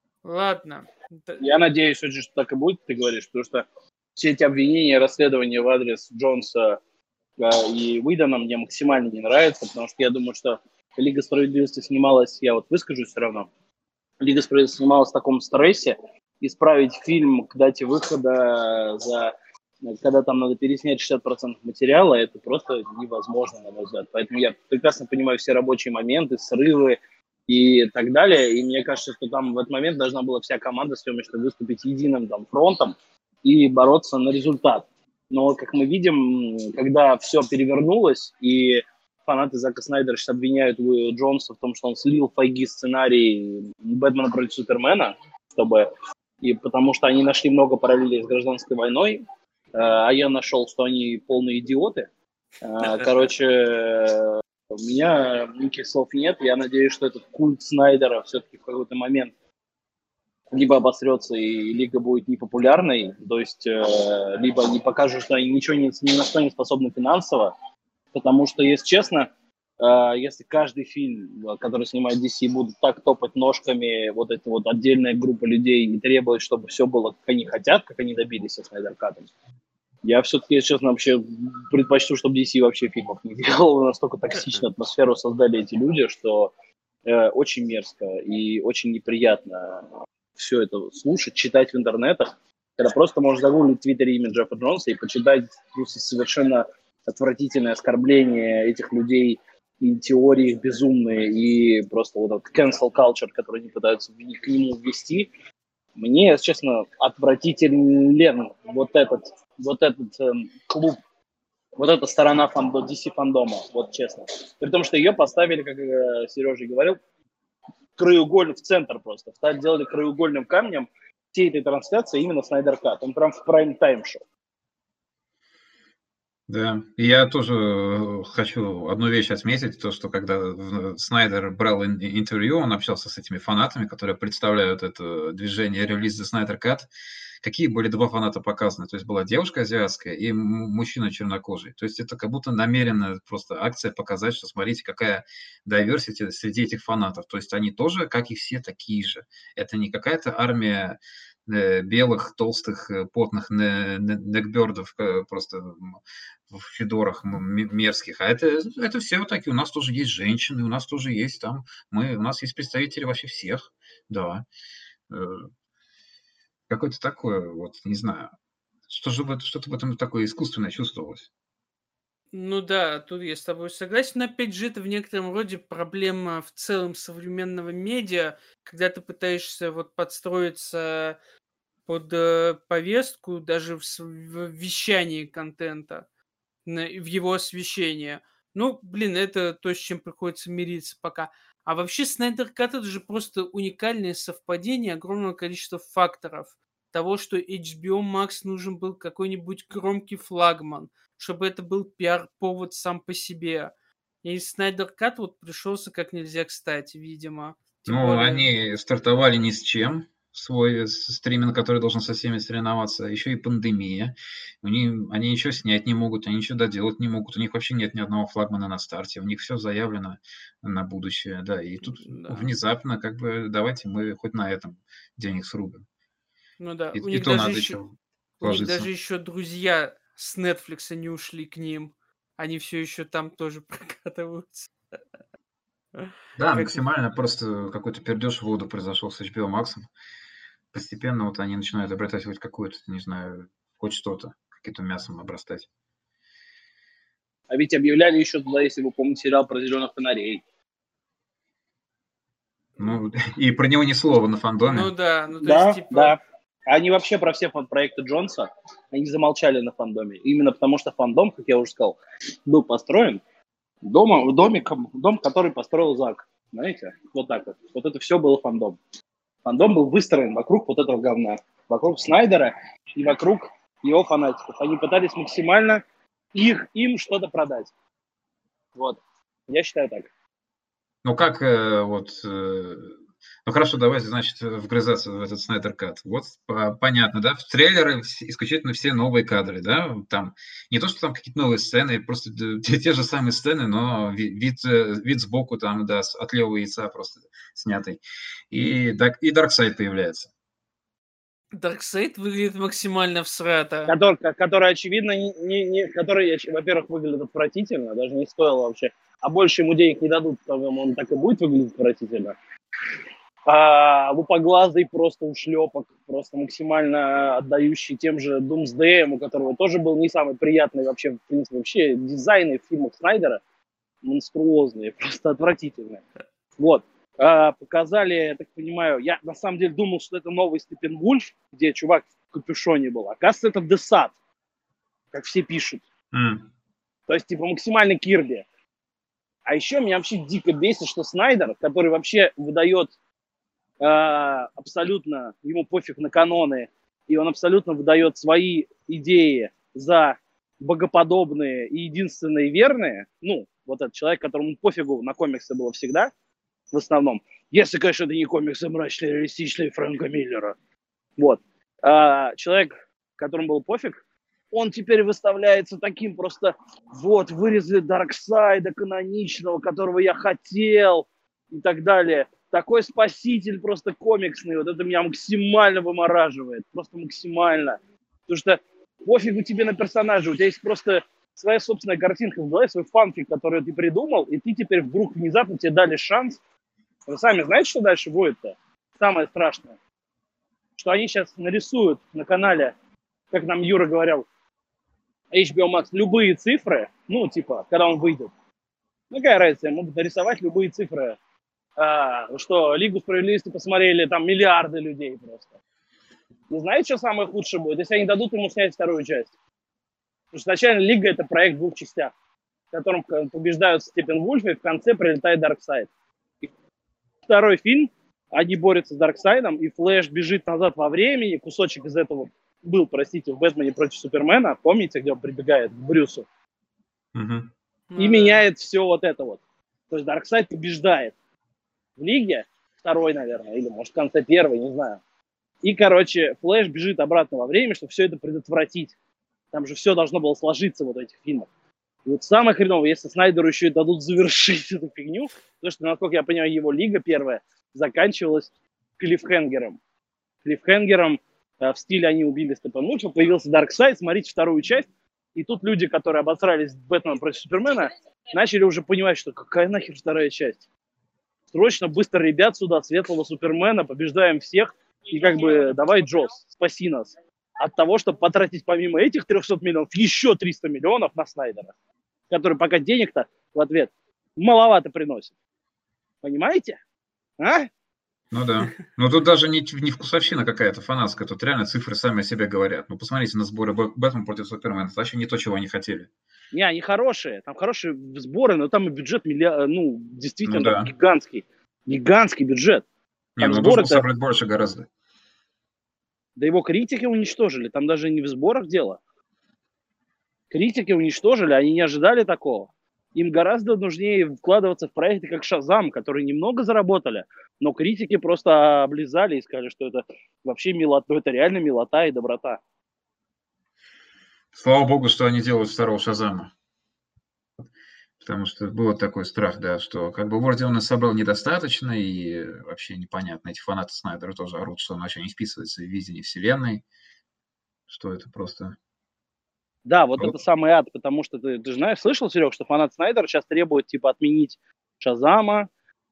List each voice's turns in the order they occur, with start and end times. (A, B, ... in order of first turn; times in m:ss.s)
0:00.2-0:01.4 A
0:01.4-0:06.8 B
0:07.4-0:13.5 B
0:14.2-0:45.9 B
0:46.4-0:49.2 B
0:49.7-0:52.1 B
0:52.6-0:59.3 B
1:00.5-1:07.5 B
1:08.1-1:09.3 B
1:09.8-1:19.3 B
1:20.0-1:26.5 B
1:27.0-1:45.3 B
1:46.0-1:51.0 B
1:51.8-1:57.0 B
1:58.0-2:04.2 B
2:06.5-2:16.9 C
2:17.4-2:44.5 C
2:45.1-2:45.5 C
2:46.7-2:48.3 C
2:48.9-2:51.3 C
2:52.3-3:01.2 A
3:01.9-3:06.0 A
3:06.6-3:23.7 A
3:24.2-3:28.5 A
3:27.9-3:45.8 C
3:41.9-3:42.5 A
3:46.6-3:47.8 A
3:46.9-3:48.9 C
3:48.4-3:54.7 A
3:56.4-3:59.9 C
3:56.5-3:56.8 A
4:00.7-4:05.7 C
4:07.5-4:10.4 B
4:12.8-4:14.9 C
4:14.7-4:16.2 A
4:15.4-4:23.2 B
4:23.8-4:28.8 B
4:29.4-4:35.8 B
4:36.3-4:37.7 B
4:38.8-4:40.1 B
4:41.0-5:00.3 C
5:01.5-5:03.9 A
5:03.9-5:12.4 B
5:13.5-5:23.4 B
5:24.0-5:26.0 B
5:26.6-5:34.1 B
5:35.1-5:35.8 B
5:36.1-5:36.5 C
5:37.1-5:38.4 B
5:39.5-5:42.9 B
5:43.8-5:56.1 B
5:56.7-6:00.6 B
6:01.2-6:04.0 B
6:04.5-6:26.4 B
6:27.1-6:29.8 B
6:30.8-6:32.7 B
6:33.3-6:34.3 B
6:35.3-6:38.3 B
6:39.1-6:41.2 B
6:41.8-6:45.5 B
6:46.5-6:49.3 B
6:50.3-6:52.1 B
6:52.7-6:55.9 B
6:57.3-7:06.3 B
7:07.1-7:07.5 C
7:07.9-7:08.4 A
7:08.0-7:09.4 B
7:09.9-7:11.1 B
7:12.0-7:15.0 B
7:15.6-7:18.9 B
7:19.5-7:21.5 B
7:22.1-7:29.8 B
7:30.4-7:40.6 B
7:41.5-7:51.7 B
7:52.3-7:55.3 B
7:56.2-7:56.8 B
7:57.4-7:57.7 B
7:58.3-8:06.1 C
8:06.5-8:12.8 B
8:10.4-8:10.9 C
8:13.4-8:14.9 C
8:13.4-8:14.0 B
8:16.4-8:19.0 B
8:20.5-8:32.6 B
8:34.5-8:36.5 C
8:38.2-8:46.8 C
8:47.9-8:48.8 C
8:49.8-8:55.7 B